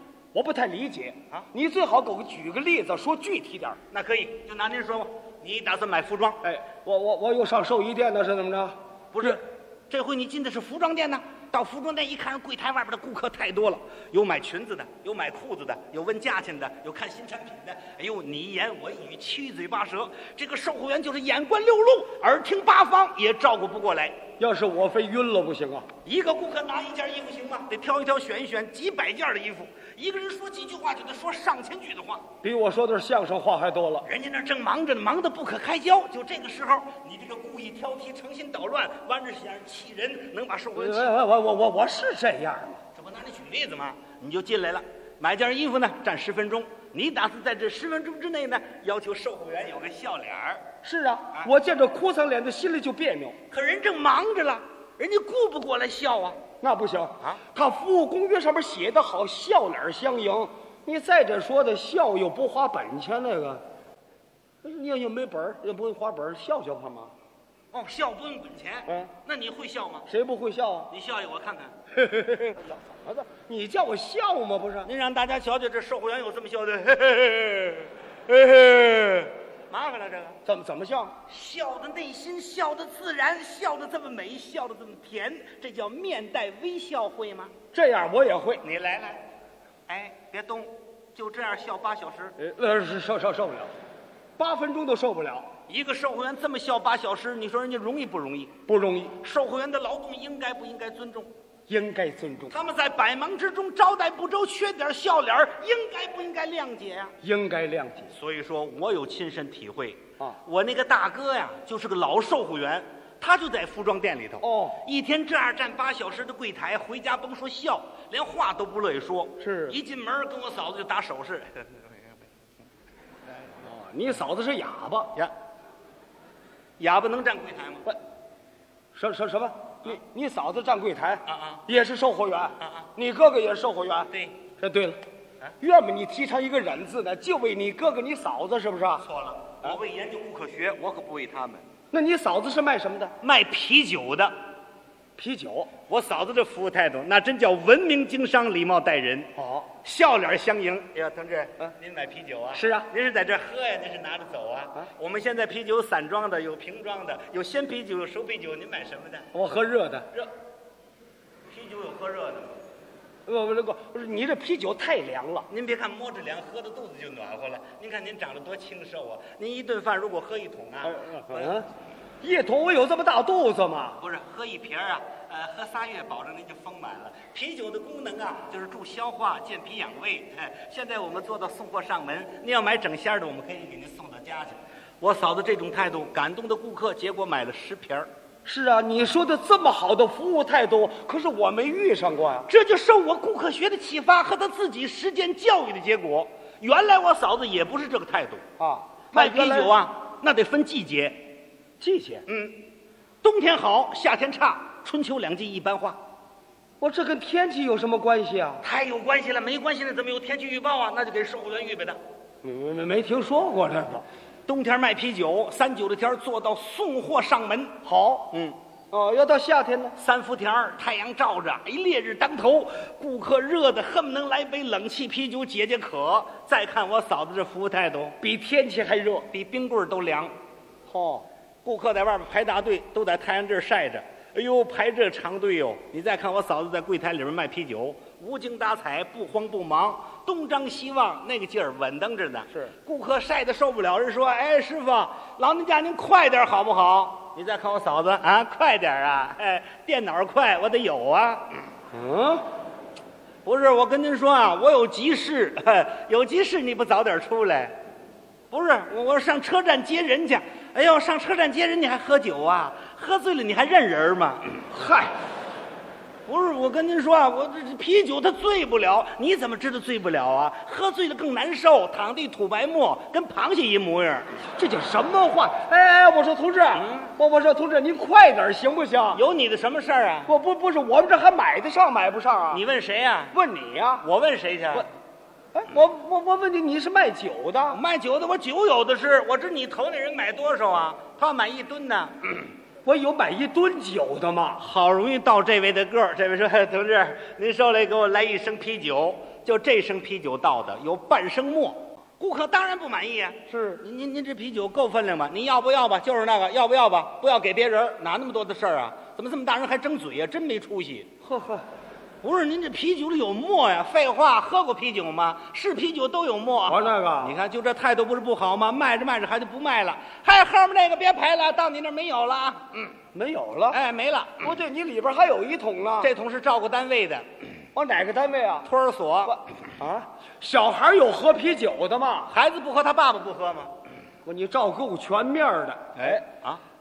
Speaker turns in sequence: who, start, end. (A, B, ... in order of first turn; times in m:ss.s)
0:00.3-0:03.8 A
0:03.9-0:06.4 B
0:06.4-0:09.4 A
0:09.1-0:24.2 B
0:24.4-0:25.8 A
0:26.0-0:32.2 B
0:32.4-0:34.1 A
0:34.0-0:41.1 B
0:40.8-0:42.8 A
0:42.9-0:50.6 B
0:50.8-0:53.4 A
0:53.5-0:56.4 B
0:56.6-1:03.6 A
1:04.6-1:07.1 A
1:07.7-1:10.1 B
1:10.1-1:10.9 A
1:10.9-1:11.7 B
1:11.9-1:14.9 A
1:14.8-1:20.4 B
1:20.4-1:21.1 A
1:21.3-1:27.5 B
1:27.7-1:28.6 A
1:28.6-1:29.2 B
1:29.9-1:32.3 B
1:32.4-1:33.7 A
1:34.4-1:35.5 A
1:35.7-1:38.5 B
1:38.7-1:39.2 A
1:39.2-1:41.3 B
1:41.7-1:42.5 A
1:42.5-1:47.1 B
1:47.2-1:48.1 A
1:48.1-2:01.6 B
1:54.4-1:54.8 A
1:59.4-1:59.8 A
2:03.6-2:05.1 A
2:06.8-2:07.8 B
2:08.9-2:15.0 A
2:11.3-2:11.6 B
2:12.6-2:12.9 B
2:14.1-2:14.4 B
2:15.6-2:19.0 A
2:19.0-2:21.6 B
2:21.9-2:23.1 A
2:23.2-2:24.3 B
2:25.2-2:25.7 A
2:25.9-2:29.3 B
2:29.4-2:29.7 A
2:29.8-2:39.3 B
2:32.5-2:32.9 A
2:39.3-2:40.1 A
2:41.5-2:42.6 B
2:43.2-2:45.5 A
2:45.5-2:51.6 B
2:50.8-2:51.7 A
2:52.2-2:54.0 A
2:54.0-3:08.1 B
3:08.4-3:12.5 A
3:12.5-3:18.4 B
3:18.6-3:19.7 A
3:19.1-3:21.2 B
3:21.8-3:22.2 A
3:22.3-3:22.6 B
3:23.2-3:26.0 B
3:26.8-3:28.6 A
3:28.6-3:32.0 B
3:32.4-3:34.0 A
3:34.5-3:37.8 B
3:37.8-3:38.3 A
3:38.3-3:38.6 B
3:38.9-3:40.0 A
3:40.0-3:48.2 B
3:48.2-3:49.3 A
3:49.3-3:50.3 B
3:50.9-3:51.2 A
3:51.6-4:11.6 B
4:11.9-4:12.4 A
4:13.4-4:17.8 B
4:18.5-4:24.7 B
4:24.7-4:25.1 A
4:26.2-4:34.4 B
4:34.6-4:39.2 A
4:36.8-4:37.1 B
4:39.1-4:40.3 B
4:40.3-4:42.6 A
4:42.5-4:43.3 B
4:43.3-4:44.0 A
4:44.0-4:44.9 B
4:45.5-4:47.8 A
4:47.7-4:52.4 B
4:52.8-4:54.6 A
4:54.6-5:11.1 B
5:03.5-5:03.8 A
5:11.2-5:11.6 A
5:12.2-5:22.9 B
5:16.7-5:17.4 A
5:23.1-5:23.8 A
5:23.7-5:24.5 B
5:24.4-5:26.1 A
5:26.0-5:27.3 B
5:27.7-5:28.7 A
5:28.6-5:29.4 B
5:29.3-5:32.3 A
5:32.3-5:33.7 B
5:34.2-5:36.2 A
5:36.0-5:36.6 B